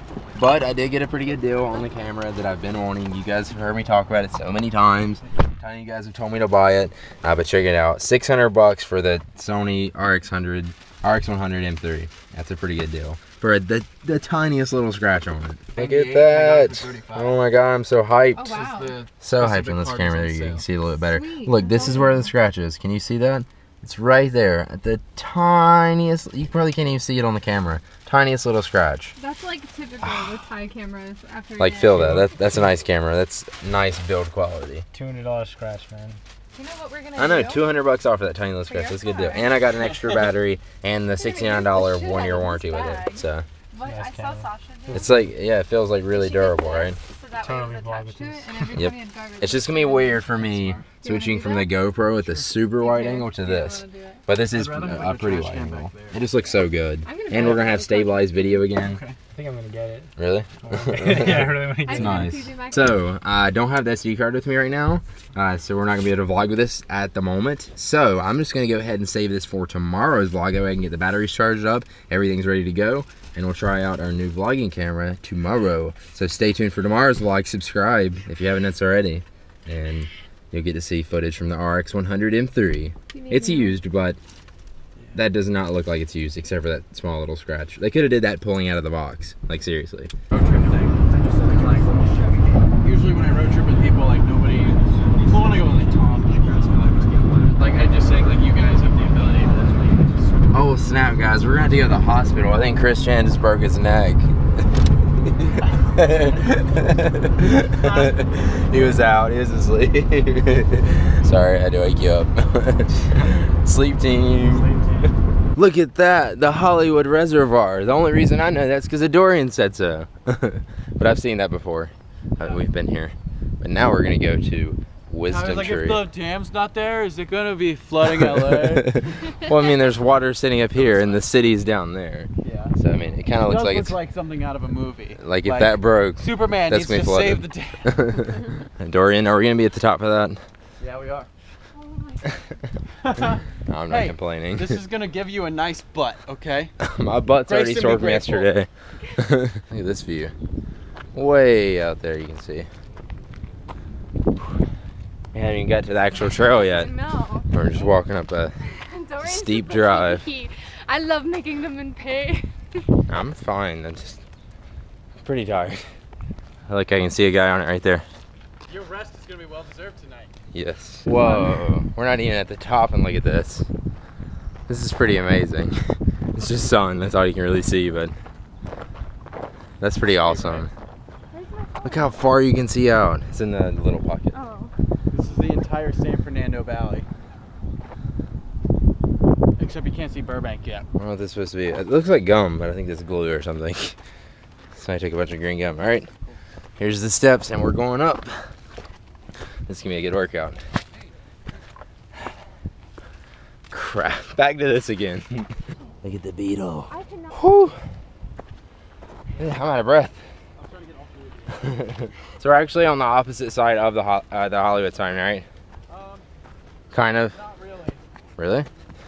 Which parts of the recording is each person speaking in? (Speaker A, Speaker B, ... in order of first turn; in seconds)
Speaker A: 0.3-18.6, 19.2-29.2, 30.0-30.4, 31.6-34.9, 37.2-43.5, 44.9-47.0, 48.8-59.0, 60.2-84.2, 85.1-90.1, 100.5-104.4, 105.3-114.7, 115.6-126.1, 128.0-134.0, 135.2-140.4, 143.7-144.8, 146.8-150.3, 151.1-152.7, 155.3-156.9, 157.5-158.6, 159.2-160.3, 163.1-164.2, 165.2-165.9, 166.7-168.0, 170.5-173.7, 174.7-175.8, 176.3-178.2, 179.8-180.7, 181.8-184.4, 191.0-194.0, 194.8-196.1, 196.8-198.5, 199.7-200.6, 203.7-207.8, 209.4-210.2, 211.6-215.5, 216.9-217.4, 218.4-218.7
Speaker B: 15.8-17.4, 18.5-20.6, 50.3-50.9, 54.5-56.6, 58.8-59.2, 90.3-92.0, 92.8-100.3, 125.3-129.1, 130.8-131.2, 132.4-132.8, 133.4-138.0, 140.8-141.3, 143.0-146.7, 147.5-148.5, 168.7-170.3, 180.0-180.7, 185.1-187.1, 189.6-190.9, 210.6-211.9, 215.9-216.3, 217.2-218.0
Speaker C: 18.4-19.0, 21.0-22.3, 29.2-32.4, 36.5-37.7, 38.7-39.5, 41.2-45.1, 46.1-50.2, 51.0-51.7, 52.8-54.2, 57.0-58.6, 61.3-63.0, 83.1-83.8, 91.1-92.6, 141.7-142.5, 156.5-157.5, 158.8-162.9, 171.1-171.7, 181.3-182.3, 184.3-184.7, 206.9-207.4
Speaker D: 34.9-36.2, 43.8-45.3, 47.4-48.8, 59.3-62.4, 114.5-115.1